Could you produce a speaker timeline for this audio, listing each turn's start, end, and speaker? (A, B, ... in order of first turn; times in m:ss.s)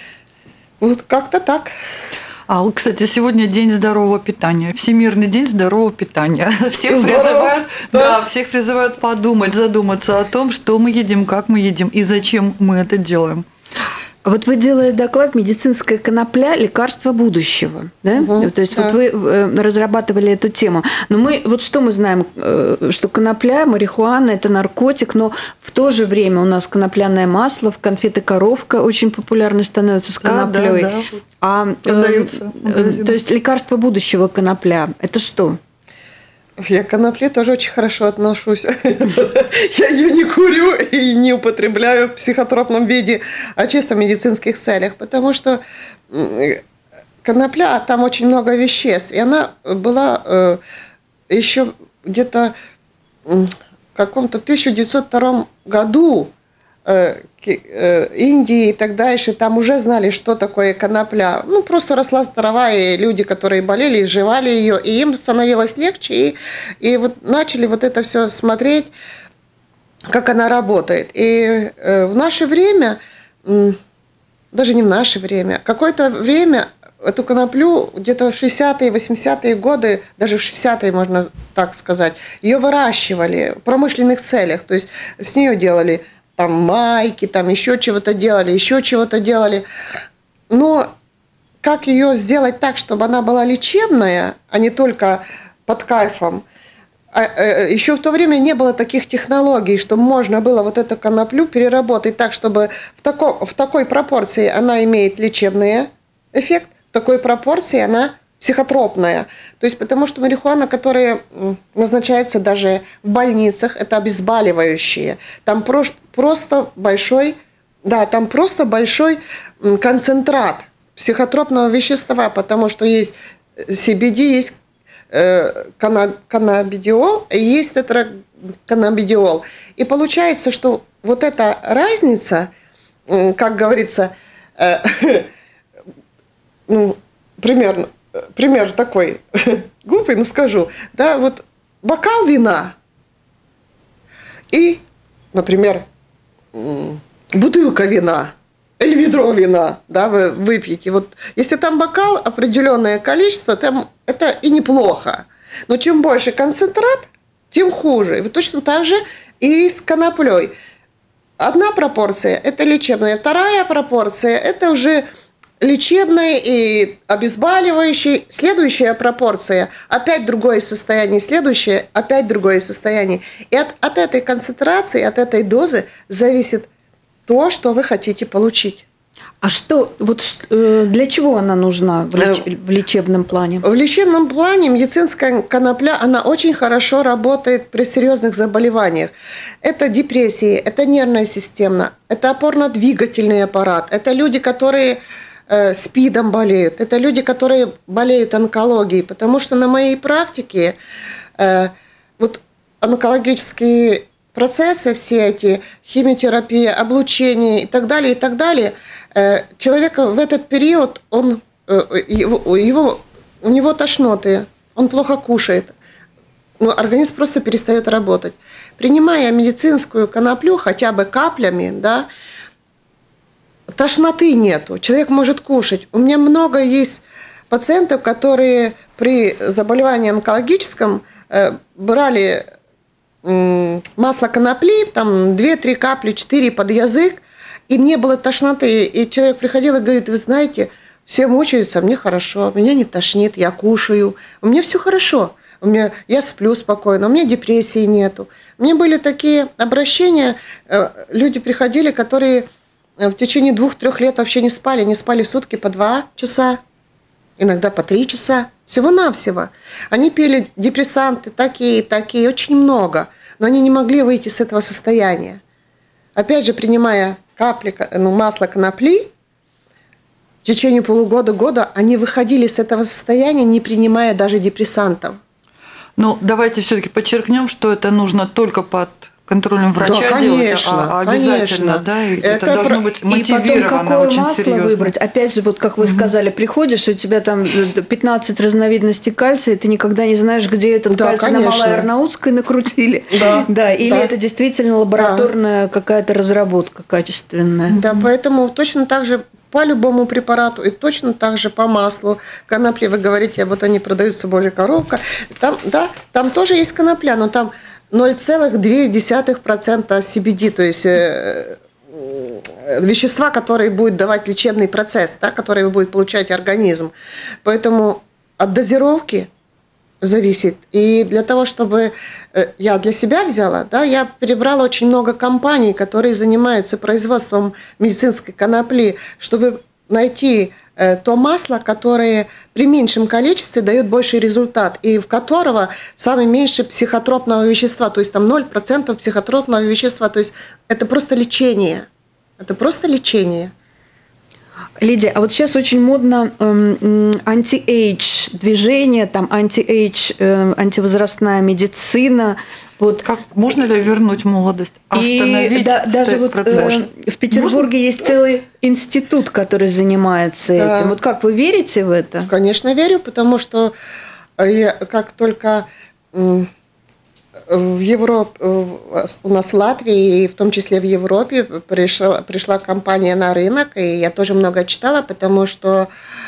0:00.8-0:01.7 A
0:02.5-0:13.4 B
0:06.9-0:08.2 A
0:14.2-0:35.6 C
0:18.2-0:19.0 A
0:30.2-0:31.2 B
0:31.8-0:33.2 B
0:36.6-0:46.6 A
0:47.2-0:50.6 A
0:51.3-0:52.5 A
0:53.2-0:56.3 A
0:56.9-1:08.9 A
1:10.1-1:13.8 A
1:14.5-1:29.6 A
1:30.5-1:30.9 A
1:31.6-1:36.4 A
1:37.1-2:04.6 A
2:05.1-2:12.5 A
2:13.1-2:15.3 A
2:16.7-2:22.8 A
2:24.5-2:25.8 A
2:26.5-2:40.5 A
2:41.4-2:45.0 A
2:45.6-2:56.7 A
2:57.3-2:58.9 A
2:59.4-3:03.6 C
3:02.2-3:02.4 A
3:03.6-3:20.8 A
3:21.4-3:35.7 A
3:36.6-3:42.1 A
3:43.7-3:52.4 A
3:53.2-4:12.5 A
4:13.0-4:16.6 A
4:17.4-4:25.4 A
4:26.1-4:29.1 A
4:30.4-4:35.2 A
4:36.0-4:44.9 B
4:39.8-4:42.8 A
4:43.1-4:57.8 C
4:45.8-4:46.1 B
4:50.9-4:51.9 A
4:53.1-4:54.1 A
4:54.9-4:55.3 A
4:57.7-4:58.1 B
4:57.7-5:16.9 A
5:17.4-5:19.3 A
5:20.0-5:41.9 A
5:42.4-5:43.5 A
5:44.8-5:53.0 C
5:53.0-5:56.8 B
5:54.9-6:02.3 C
5:57.3-5:57.7 A
6:00.6-6:00.9 A
6:02.3-6:03.7 A
6:04.4-6:06.5 A
6:07.5-6:15.9 A